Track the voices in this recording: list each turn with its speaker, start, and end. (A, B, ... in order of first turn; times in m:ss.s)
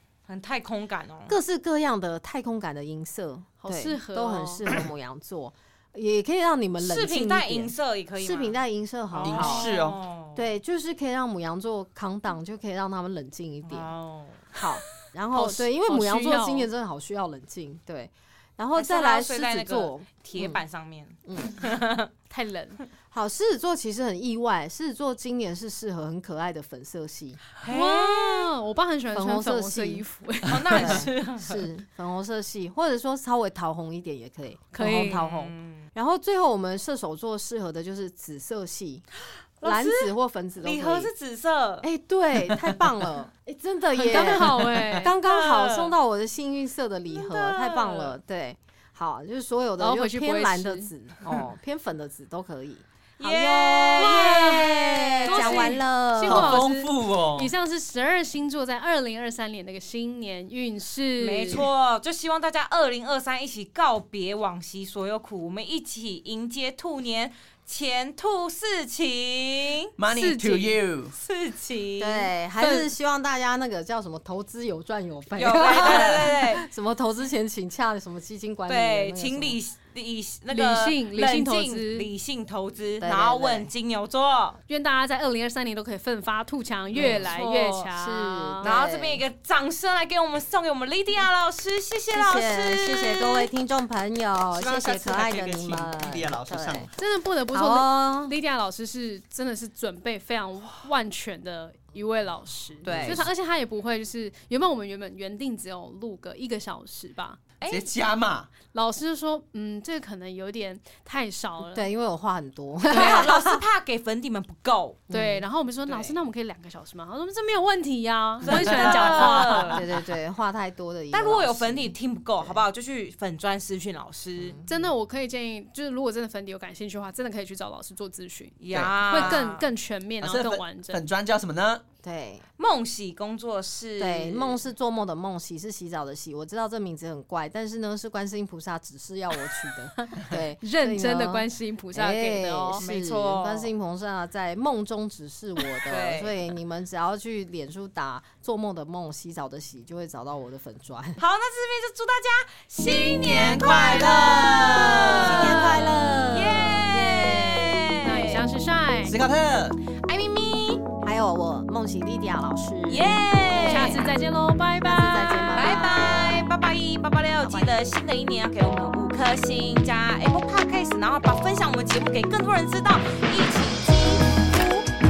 0:00.3-0:01.4 A
0:01.3-0:09.7 B
0:03.6-0:04.6 C
0:06.8-0:08.6 A
0:09.1-0:10.5 A
0:09.2-0:10.0 D
0:10.4-0:13.9 B
0:13.6-0:14.4 A
0:14.5-0:20.6 B
0:15.3-0:16.7 C
0:18.8-0:22.1 A
0:21.2-0:21.6 B
0:22.3-0:22.8 C
0:23.1-0:27.4 B
0:27.6-0:28.5 A
0:27.7-0:31.1 C
0:29.1-0:30.0 B
0:30.4-0:31.7 A
0:30.7-0:39.0 B
0:34.7-0:35.2 C
0:35.2-0:35.9 A
0:39.6-0:41.9 A
0:39.6-0:41.1 B
0:41.8-0:56.6 B
0:44.0-0:45.1 C
0:44.6-0:44.9 D
0:45.0-0:45.9 A
0:47.1-0:48.2 A
0:49.8-0:50.9 C
0:53.2-0:55.8 A
0:54.0-0:54.7 C
0:55.2-1:01.7 C
0:56.2-0:57.5 D
1:01.2-1:09.9 A
1:10.0-1:11.2 D
1:10.1-1:10.8 C
1:11.1-1:12.3 A
1:12.0-1:19.6 B
1:12.6-1:12.9 C
1:15.4-1:16.7 A
1:18.7-1:24.6 A
1:20.5-1:22.1 C
1:23.0-1:23.7 B
1:24.7-1:28.7 C
1:26.9-1:27.9 A
1:27.0-1:27.3 B
1:27.9-1:29.2 B
1:28.6-1:33.5 A
1:32.1-1:36.9 B
1:34.5-1:36.9 D
1:37.0-1:47.4 C
1:37.5-1:38.3 B
1:42.8-1:43.2 A
1:42.8-1:43.3 B
1:47.6-1:47.9 A
1:47.7-1:48.5 D
1:48.7-1:51.9 C
1:51.8-1:53.6 B
1:52.9-1:55.0 A
1:52.9-1:53.2 C
1:55.1-1:55.4 B
1:55.1-1:59.8 C
1:55.9-1:56.2 A
1:58.4-1:59.6 D
1:58.4-1:59.8 A
1:59.7-2:02.6 B
2:01.1-2:04.6 A
2:04.4-2:04.8 B
2:04.7-2:11.0 C
2:08.6-2:09.7 A
2:08.7-2:09.4 D
2:10.2-2:11.8 D
2:12.0-2:12.5 B
2:12.6-2:14.6 A
2:14.0-2:31.2 B
2:20.2-2:22.8 C
2:22.8-2:23.7 A
2:25.9-2:26.4 A
2:31.2-2:38.5 A
2:32.9-2:35.8 D
2:35.2-2:37.9 B
2:35.4-2:35.8 C
2:38.0-2:39.2 C
2:39.0-2:39.8 D
2:39.9-2:40.8 A
2:41.0-2:44.1 B
2:42.9-2:44.1 A
2:43.6-2:46.0 C
2:44.8-2:46.5 B
2:45.6-2:54.9 A
2:47.4-2:47.8 B